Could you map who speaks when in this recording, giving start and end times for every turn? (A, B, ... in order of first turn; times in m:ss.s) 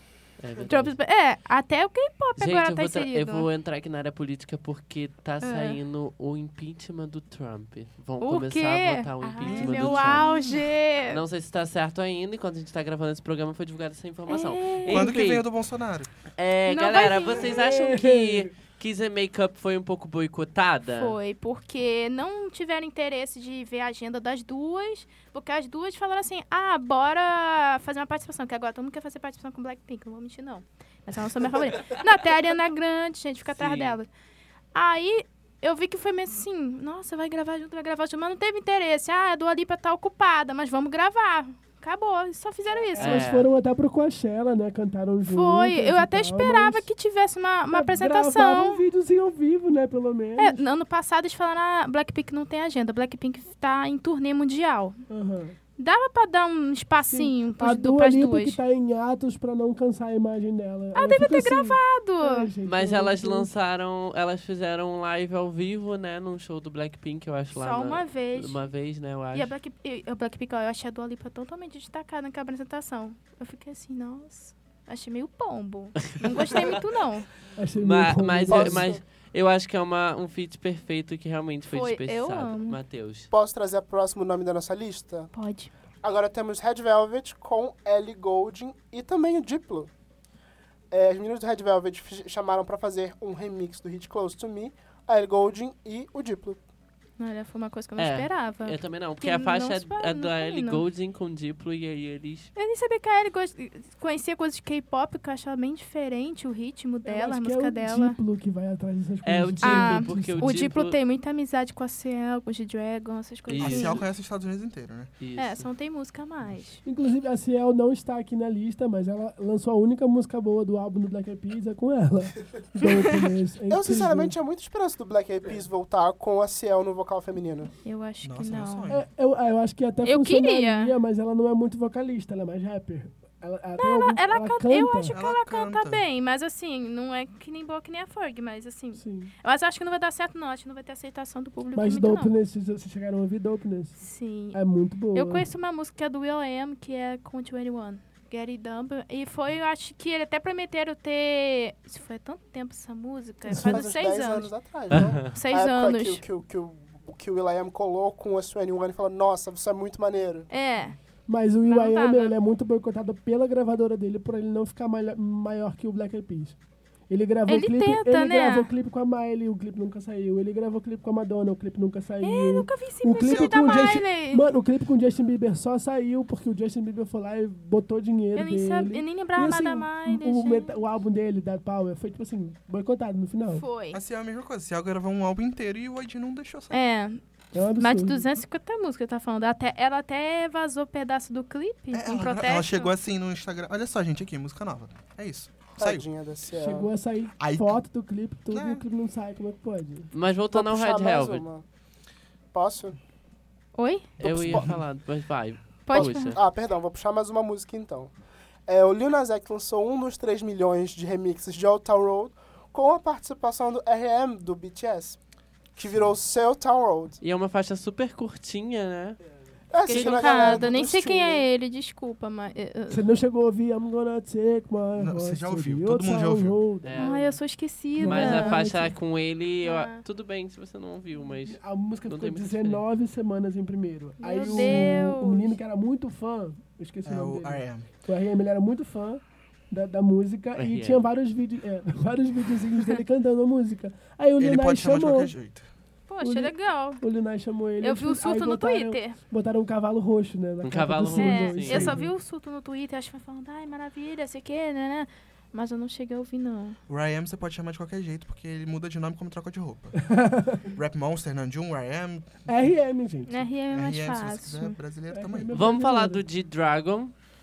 0:00.4-0:00.9 A
0:00.6-0:03.5 B
0:02.4-0:10.3 A
0:05.4-0:05.8 B
0:08.2-0:11.2 B
0:09.4-0:10.7 C
0:11.1-0:15.4 A
0:14.3-0:15.1 B
0:14.9-0:16.1 C
0:16.4-0:21.2 A
0:16.7-0:17.6 B
0:17.4-0:18.5 D
0:20.9-0:34.1 B
0:33.5-0:34.0 A
0:34.7-0:43.3 B
0:42.8-0:46.9 D
0:43.0-0:43.5 A
0:45.3-0:48.8 B
0:47.7-0:50.6 D
0:50.4-0:55.0 B
0:55.1-0:55.6 D
0:55.8-0:58.6 B
0:57.1-1:03.5 D
1:00.9-1:02.5 B
1:02.6-1:09.5 A
1:07.5-1:08.6 B
1:09.3-1:17.3 B
1:16.0-1:16.8 A
1:17.6-1:18.9 D
1:17.8-1:23.3 A
1:18.5-1:19.0 E
1:21.7-1:22.8 B
1:23.3-1:25.3 E
1:25.3-1:25.7 B
1:26.0-1:29.9 E
1:30.9-1:36.6 E
1:37.2-1:40.8 B
1:38.0-1:42.5 A
1:42.6-1:48.2 B
1:47.0-1:50.7 D
1:49.2-1:51.0 A
1:49.6-1:54.0 B
1:53.5-1:54.0 A
1:53.6-1:55.1 C
1:55.2-1:55.7 A
1:55.4-1:56.8 B
1:56.8-2:04.4 D
2:02.8-2:03.3 B
2:03.7-2:07.7 E
2:07.8-2:08.9 B
2:08.2-2:09.0 C
2:08.9-2:15.2 D
2:10.0-2:11.0 B
2:13.8-2:22.3 B
2:15.1-2:16.0 C
2:18.9-2:19.3 D
2:21.8-2:24.0 D
2:24.0-2:24.6 B
2:24.5-2:25.5 D
2:25.1-2:34.5 B
2:33.5-2:33.8 D
2:33.6-2:40.5 E
2:34.9-2:35.3 A
2:35.2-2:36.2 B
2:40.5-2:41.0 B
2:41.3-2:46.6 D
2:41.6-2:42.3 B
2:47.1-3:03.6 D
2:47.5-2:48.7 B
2:52.2-2:54.5 B
2:53.2-2:54.1 C
2:58.4-3:00.8 B
3:03.5-3:04.0 B
3:03.9-3:06.8 C
3:06.7-3:12.9 B
3:07.5-3:08.3 D
3:11.9-3:16.0 C
3:15.8-3:16.9 E
3:16.6-3:20.1 D
3:17.4-3:17.8 C
3:18.5-3:18.8 C
3:20.1-3:21.5 A
3:20.5-3:21.6 E
3:22.5-3:23.0 E
3:23.8-3:24.2 B
3:24.2-3:26.4 A
3:24.2-3:24.7 E
3:24.5-3:24.8 C
3:25.9-3:26.4 B
3:25.9-3:28.1 E
3:28.7-3:35.2 E
3:35.8-3:37.2 E
3:35.8-3:36.1 C
3:37.2-3:39.2 A
3:39.7-3:41.5 E
3:39.8-3:43.1 B
3:39.9-3:40.2 A
3:42.9-3:47.4 D
3:45.0-3:46.6 C
3:46.8-3:47.3 A
3:47.0-3:48.8 B
3:48.0-3:48.9 D
3:48.0-3:52.8 A
3:49.6-3:50.0 B
3:51.5-4:05.3 D
3:54.2-3:55.6 B
3:54.4-3:54.9 A
3:57.0-3:57.9 C
4:00.6-4:01.1 A
4:04.4-4:05.7 C
4:06.1-4:07.0 B
4:06.2-4:12.1 D
4:07.8-4:09.2 B
4:10.6-4:12.0 A
4:11.1-4:16.8 B
4:16.9-4:20.1 C
4:20.0-4:20.7 D
4:20.7-4:22.7 C
4:22.5-4:23.5 D
4:23.3-4:24.8 B
4:23.7-4:25.5 C
4:25.1-4:26.2 D
4:25.5-4:27.1 A